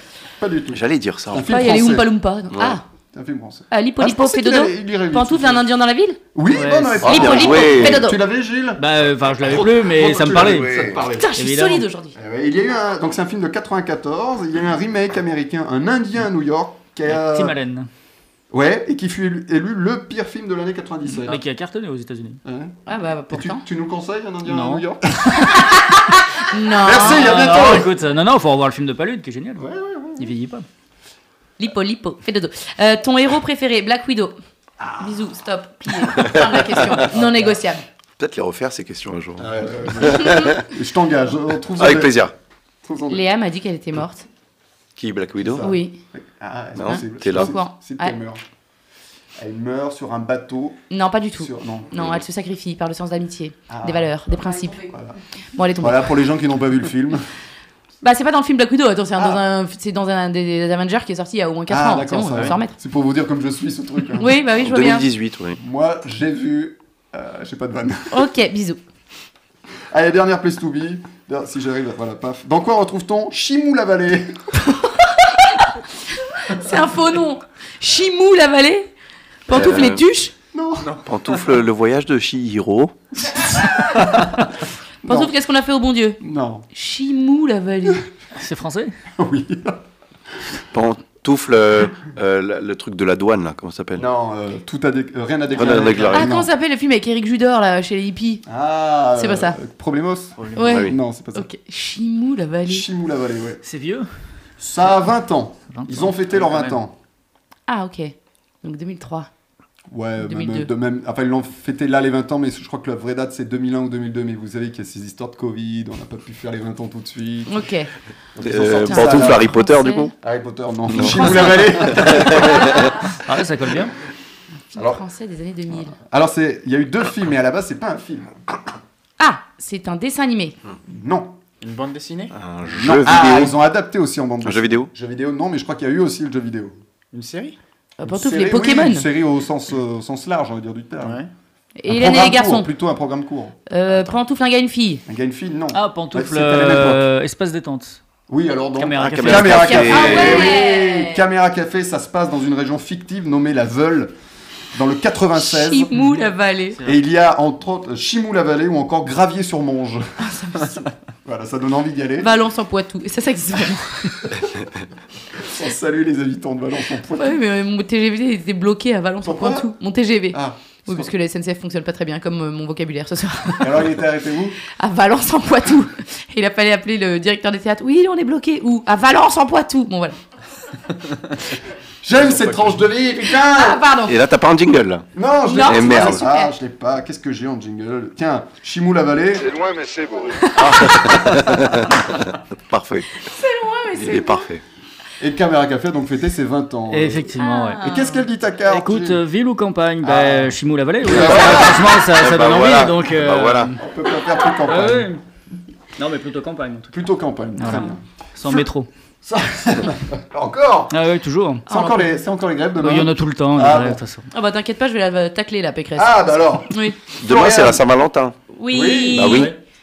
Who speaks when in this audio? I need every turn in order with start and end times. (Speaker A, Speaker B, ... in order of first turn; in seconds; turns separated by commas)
Speaker A: 0.4-2.1, Speaker B: 0.7-1.5, Speaker C: 1.4-2.8, Speaker B: 2.5-2.8, Speaker A: 3.1-5.7, Speaker C: 3.7-6.2, Speaker A: 6.3-11.3, Speaker D: 6.5-7.0, Speaker C: 7.0-8.2, Speaker B: 7.0-8.1, Speaker D: 8.8-10.8, Speaker B: 9.5-11.0, Speaker C: 11.1-12.2, Speaker D: 11.3-11.9, Speaker A: 12.2-17.6, Speaker D: 17.1-17.9, Speaker A: 18.5-21.4, Speaker D: 21.2-22.4, Speaker A: 22.5-22.8, Speaker C: 22.9-23.6, Speaker A: 23.3-25.7, Speaker D: 24.4-25.5, Speaker C: 26.4-27.7, Speaker A: 26.8-27.9, Speaker D: 27.0-29.6, Speaker A: 29.6-30.3, Speaker D: 30.2-30.7, Speaker C: 31.6-34.4, Speaker A: 34.8-35.1, Speaker C: 35.0-37.8, Speaker A: 36.9-37.6, Speaker B: 38.2-40.6, Speaker A: 39.4-42.1, Speaker B: 41.8-42.3, Speaker A: 42.9-43.2, Speaker C: 43.1-44.3, Speaker B: 45.0-45.7, Speaker A: 45.4-48.4, Speaker C: 45.6-46.0, Speaker B: 46.8-47.5, Speaker C: 46.9-48.2, Speaker A: 49.4-50.8, Speaker C: 50.9-54.9, Speaker A: 51.4-52.2, Speaker A: 53.7-55.2, Speaker C: 55.6-56.1, Speaker A: 55.8-57.2, Speaker C: 58.0-62.8, Speaker A: 59.2-59.4, Speaker A: 61.7-64.4, Speaker C: 64.2-65.1, Speaker B: 64.5-65.6, Speaker A: 65.6-68.3, Speaker C: 68.1-68.8, Speaker A: 69.9-74.3, Speaker C: 74.7-75.4, Speaker C: 76.4-78.9, Speaker C: 79.5-80.3, Speaker B: 79.5-80.0, Speaker A: 80.5-80.9, Speaker E: 80.8-81.4, Speaker B: 81.1-83.5, Speaker A: 85.0-85.3, Speaker C: 85.0-86.2, Speaker A: 86.2-86.7, Speaker C: 86.7-88.0, Speaker D: 88.4-88.9, Speaker A: 89.2-89.8, Speaker B: 90.7-94.1, Speaker A: 94.0-96.5, Speaker B: 95.5-96.4, Speaker C: 96.1-98.5, Speaker A: 98.5-101.5, Speaker C: 99.2-99.6, Speaker C: 100.5-102.9, Speaker B: 100.6-101.0, Speaker A: 102.7-103.6, Speaker D: 103.6-104.1, Speaker A: 104.6-107.0, Speaker D: 105.7-106.1, Speaker E: 106.3-106.8, Speaker C: 107.7-109.3, Speaker A: 109.9-117.7, Speaker C: 110.2-110.7, Speaker C: 117.5-117.9, Speaker A: 118.4-119.5, Speaker B: 118.4-120.1, Speaker C: 118.5-120.1, Speaker A: 120.2-122.9, Speaker B: 120.9-122.9, Speaker D: 123.2-123.9, Speaker C: 124.7-126.0, Speaker A: 124.8-125.0, Speaker A: 125.7-128.7, Speaker C: 129.2-130.6, Speaker A: 130.9-131.4, Speaker E: 131.6-132.4, Speaker B: 132.3-133.6, Speaker A: 132.7-136.8, Speaker B: 134.4-134.9, Speaker E: 137.1-137.6, Speaker C: 138.0-139.1, Speaker A: 138.0-141.2, Speaker E: 141.0-141.3, Speaker C: 141.8-142.7, Speaker A: 141.9-143.6, Speaker C: 143.7-145.0, Speaker A: 145.1-147.0, Speaker D: 145.7-148.0, Speaker A: 148.3-154.1, Speaker D: 148.8-150.2, Speaker B: 149.0-150.5, Speaker C: 149.5-151.2, Speaker A: 154.7-156.0, Speaker C: 155.4-156.8, Speaker A: 156.8-160.0, Speaker C: 160.2-160.9, Speaker A: 161.2-162.3, Speaker C: 162.2-164.2, Speaker A: 165.3-167.4, Speaker C: 167.1-173.9, Speaker A: 169.2-169.7, Speaker A: 170.3-171.1, Speaker A: 173.6-174.6, Speaker C: 174.8-180.2, Speaker A: 182.0-183.9, Speaker E: 182.1-182.9, Speaker C: 183.3-184.2, Speaker B: 184.1-185.1, Speaker A: 185.1-190.0, Speaker C: 185.5-186.5, Speaker B: 185.6-186.3, Speaker C: 190.3-191.0, Speaker B: 190.5-193.3, Speaker C: 193.2-194.5, Speaker B: 193.9-194.6, Speaker A: 195.2-199.2, Speaker D: 196.9-197.8, Speaker C: 197.4-198.3, Speaker D: 198.7-203.8, Speaker A: 200.0-202.0, Speaker B: 201.1-203.7, Speaker A: 203.8-205.1, Speaker D: 204.6-205.2, Speaker D: 206.0-207.0, Speaker A: 206.9-208.0, Speaker D: 207.6-208.9, Speaker A: 209.2-210.9, Speaker D: 210.9-211.7, Speaker A: 211.7-214.0, Speaker C: 211.7-212.1, Speaker D: 212.8-214.3, Speaker C: 214.3-217.0, Speaker A: 216.0-217.8, Speaker B: 217.2-218.3, Speaker C: 218.5-219.5, Speaker A: 218.7-219.5, Speaker B: 219.1-219.5